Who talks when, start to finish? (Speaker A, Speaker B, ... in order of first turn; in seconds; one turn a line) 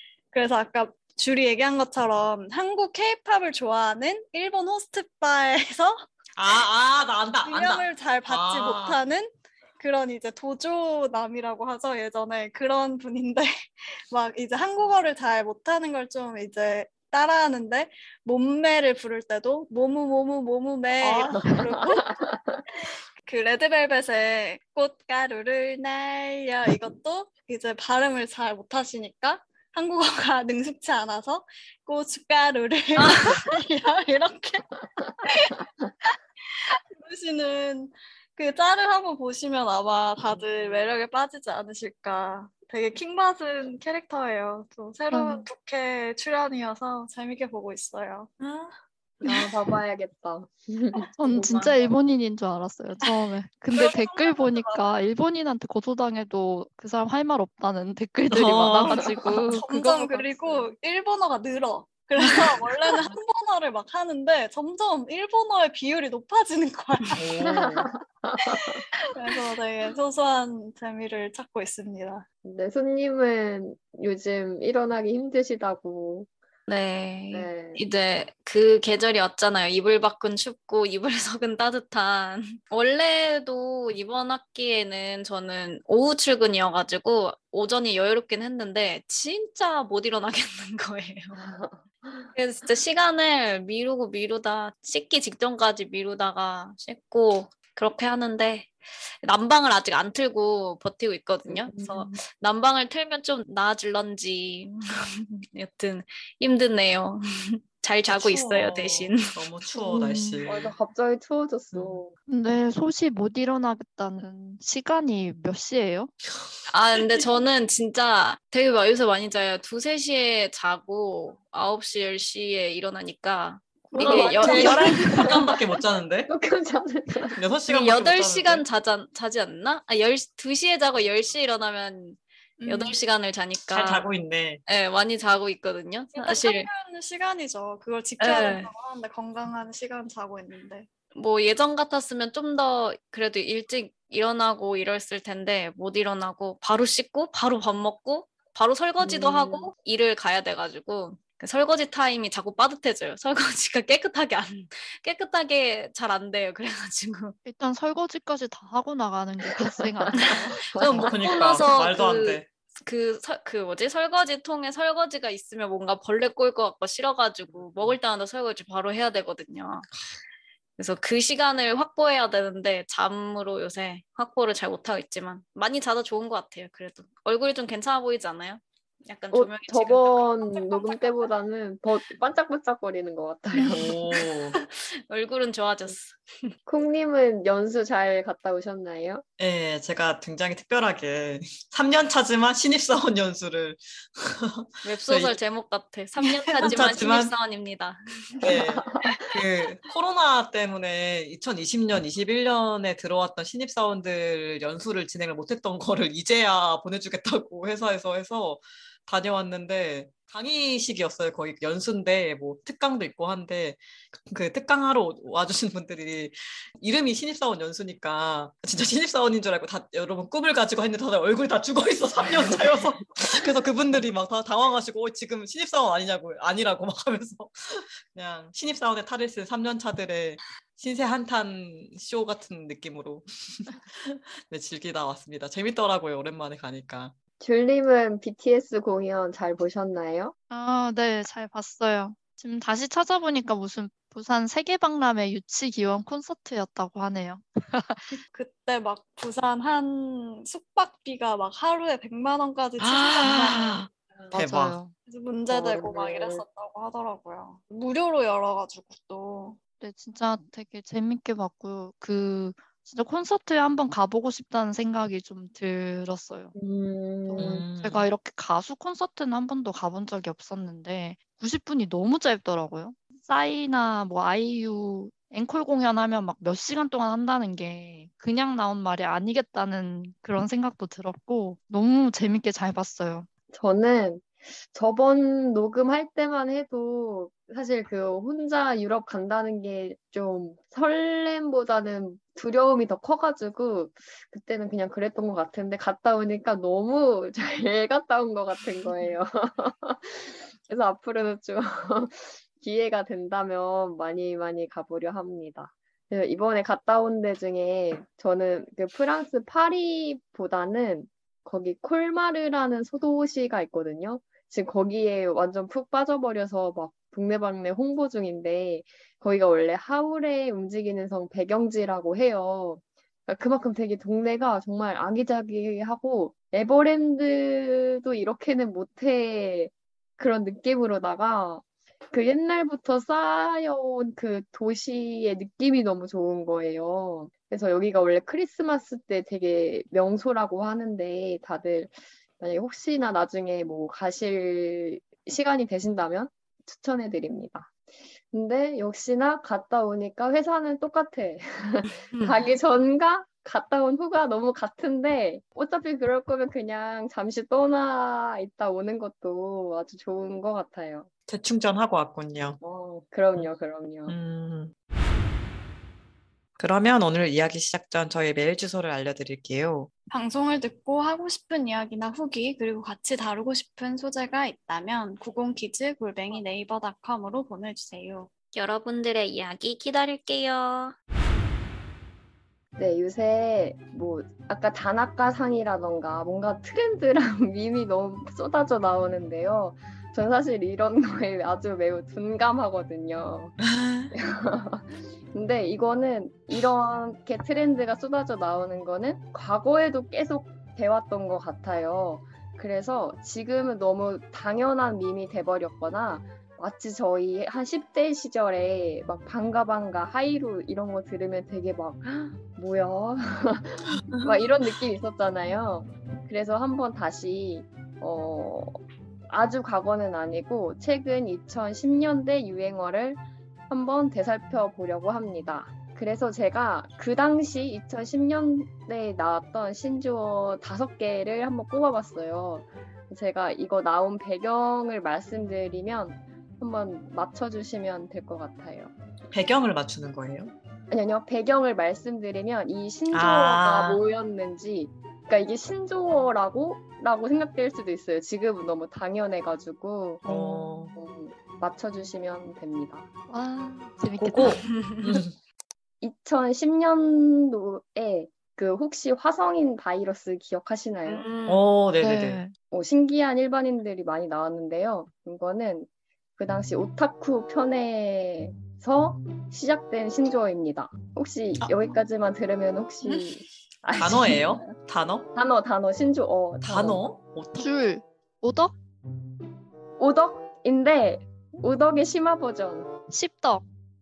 Speaker A: 0.3-6.1
Speaker B: 6.4-9.0
Speaker A: 7.4-22.1
Speaker B: 21.0-21.4
Speaker C: 21.4-22.6
Speaker A: 23.2-34.6
Speaker D: 32.9-33.6
Speaker A: 35.2-48.7
Speaker E: 45.1-45.5
Speaker C: 49.2-51.1
Speaker E: 51.2-60.3
Speaker D: 51.3-51.8
Speaker A: 53.7-54.9
Speaker B: 58.3-60.0
Speaker A: 59.5-67.5
Speaker B: 67.2-67.8
Speaker C: 67.4-68.8
Speaker A: 68.4-72.2
Speaker C: 72.4-76.3
Speaker D: 76.7-91.5
Speaker C: 77.3-77.8
Speaker C: 91.3-92.3
Speaker D: 92.3-98.7
Speaker D: 99.2-109.4
Speaker C: 101.5-102.2
Speaker B: 108.1-110.7
Speaker E: 109.8-110.4
Speaker C: 110.4-112.1
Speaker B: 111.7-112.0
Speaker E: 112.3-116.1
Speaker D: 116.7-125.6
Speaker C: 123.9-125.6
Speaker B: 124.0-126.3
Speaker C: 126.3-127.4
Speaker B: 127.3-128.6
Speaker D: 127.7-134.1
Speaker A: 132.6-133.0
Speaker B: 133.7-134.6
Speaker D: 134.7-136.7
Speaker A: 136.1-140.9
Speaker D: 138.2-138.7
Speaker D: 141.1-157.4
Speaker C: 149.0-149.7
Speaker E: 157.4-160.6
Speaker C: 159.5-161.6
Speaker D: 160.2-169.9
Speaker B: 160.8-162.5
Speaker D: 170.8-180.4
Speaker C: 179.3-184.0
Speaker A: 180.7-181.2
Speaker D: 183.5-186.5
Speaker B: 183.7-184.6
Speaker C: 186.7-189.2
Speaker B: 189.4-195.4
Speaker D: 194.8-199.2
Speaker A: 196.4-196.8
Speaker B: 196.6-197.3
Speaker B: 198.4-237.1
Speaker C: 198.4-199.3
Speaker C: 237.4-240.3
Speaker E: 240.5-248.2
Speaker A: 248.3-253.8
Speaker B: 252.8-254.8
Speaker E: 254.3-254.9
Speaker A: 255.1-259.6
Speaker C: 255.5-256.4
Speaker E: 259.8-266.6
Speaker C: 266.6-267.6
Speaker E: 267.2-283.3
Speaker B: 267.4-268.1
Speaker C: 283.5-347.7
Speaker C: 348.3-361.1
Speaker D: 352.0-352.4
Speaker B: 361.3-362.6
Speaker C: 362.6-364.1
Speaker B: 364.1-364.7
Speaker B: 366.6-369.9
Speaker A: 370.1-378.3
Speaker D: 378.5-380.9
Speaker C: 382.8-393.6
Speaker B: 393.7-394.1
Speaker C: 394.1-418.8
Speaker C: 419.3-438.9
Speaker B: 439.3-440.5
Speaker C: 440.9-450.2
Speaker B: 443.1-444.0
Speaker B: 450.2-450.9
Speaker E: 450.3-450.7
Speaker C: 450.9-453.1
Speaker E: 453.3-454.7
Speaker B: 454.2-455.3
Speaker D: 454.7-455.2
Speaker C: 456.0-461.3
Speaker D: 461.1-461.6
Speaker B: 461.5-462.4
Speaker E: 462.0-462.5
Speaker C: 462.7-474.7
Speaker B: 473.9-475.3
Speaker C: 475.3-477.0
Speaker B: 476.6-477.7
Speaker E: 477.6-478.7
Speaker C: 480.0-482.9
Speaker E: 483.1-483.6